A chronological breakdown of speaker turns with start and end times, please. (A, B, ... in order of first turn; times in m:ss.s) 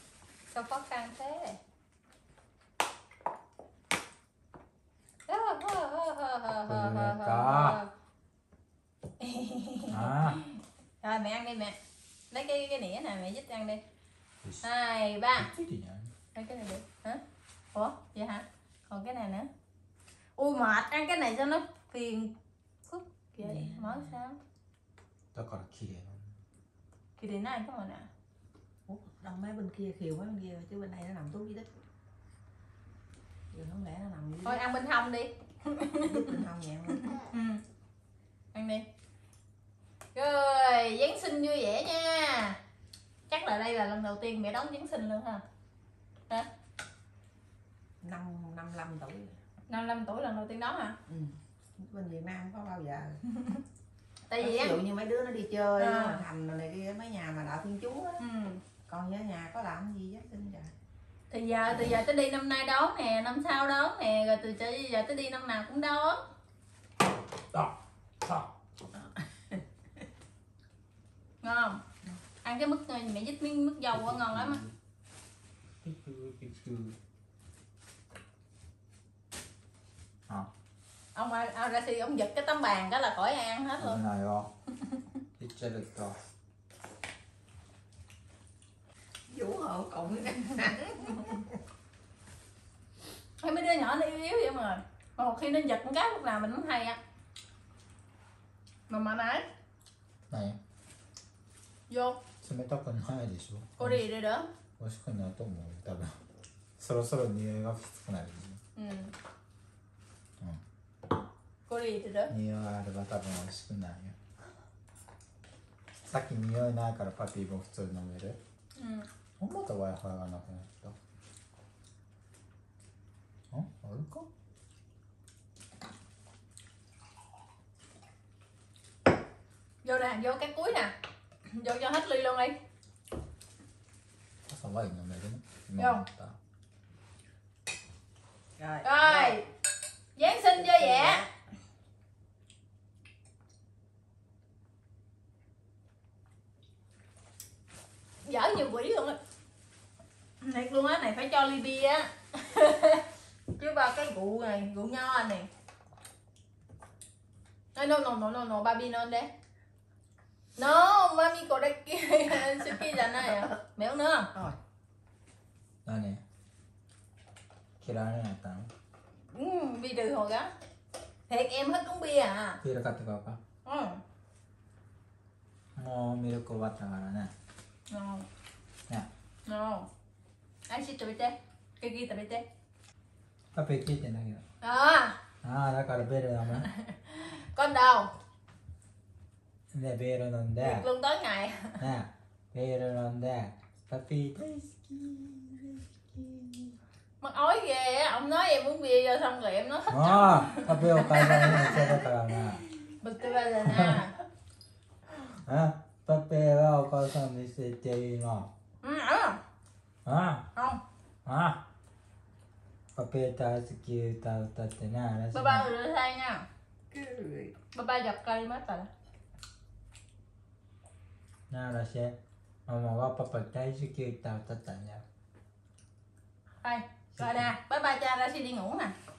0:00.5-0:01.6 A
0:05.3-0:07.9 A
0:06.6-0:07.8 B
0:09.2-0:11.8 A
0:09.9-0:10.4 B
0:12.3-0:13.8 A
0:14.6-0:15.5 A
0:15.4-0:16.1 B
0:16.3-0:17.2 A
0:17.7-0:19.5 A
0:20.4-0:22.4 A
0:22.9-0:24.4 A
0:23.4-0:24.1 C
0:25.3-0:26.3 B
0:27.2-0:28.1 A
0:28.9-0:31.7 C
0:33.5-0:34.6 C
0:34.4-0:37.6 A
0:36.0-0:37.1 C
0:38.5-0:38.8 A
0:40.2-0:42.6 A
0:43.3-0:45.4 A
0:48.0-0:49.4 C
0:49.7-0:51.0 A
0:51.1-0:53.2 C
0:53.3-0:53.6 A
0:54.3-0:54.8 A
0:54.4-0:58.2 C
0:55.8-0:56.2 A
0:58.2-0:58.6 A
0:58.9-1:00.7 C
1:01.3-1:06.2 A
1:07.5-1:08.5 B
1:09.0-1:09.6 C
1:11.4-1:11.8 A
1:12.4-1:14.6 A
1:13.9-1:14.7 B
1:15.8-1:17.0 B
1:21.2-1:24.0 A
1:23.8-1:24.5 B
1:25.4-1:26.2 B
1:29.3-1:31.6 C
1:33.4-1:37.0 A
1:38.9-1:39.5 A
1:40.3-1:40.6 B
1:41.9-1:42.2 A
1:42.4-1:44.0 B
1:43.8-1:44.5 A
1:44.8-1:46.2 B
1:46.8-1:48.6 B
1:48.8-1:49.1 A
1:51.7-1:52.3 A
1:52.3-1:54.2 B
1:56.0-1:58.4 B
1:58.8-1:59.1 A
1:59.4-2:01.0 B
2:03.5-2:04.3 B
2:09.8-2:10.9 A
2:11.5-2:12.6 A
2:14.5-2:16.4 B
2:15.8-2:16.0 A
2:18.6-2:19.4 C
2:18.8-2:19.5 A
2:20.2-2:21.2 A
2:20.4-2:21.3 C
2:28.2-2:29.2 A
2:30.4-2:35.5 A
2:37.8-2:39.3 A
2:40.6-2:44.3 A
2:43.2-2:43.5 C
2:45.8-2:46.2 B
2:47.8-2:48.7 B
2:49.3-2:50.5 A
2:51.3-2:52.6 A
2:52.6-2:53.4 B
2:53.7-2:54.0 A
2:55.8-2:57.3 B
2:57.9-2:58.3 A
2:59.5-2:59.9 A
3:00.7-3:02.4 A
3:03.5-3:04.4 B
3:04.6-3:05.2 A
3:05.4-3:06.7 B
3:06.6-3:08.1 A
3:09.7-3:10.9 B
3:10.6-3:11.8 A
3:11.8-3:16.8 B
3:17.2-3:21.8 A
3:19.9-3:22.7 B
3:23.0-3:24.2 A
3:23.6-3:24.1 B
3:25.1-3:28.5 B
3:28.8-3:29.4 A
3:30.1-3:30.5 B
3:30.6-3:30.8 A
3:31.2-3:31.6 B
3:33.0-3:35.7 B
3:35.3-3:36.4 A
3:36.9-3:37.5 C
3:37.8-3:38.9 A
3:41.5-3:42.2 B
3:42.7-3:45.0 B
3:46.6-3:49.0 A
3:47.2-3:47.5 B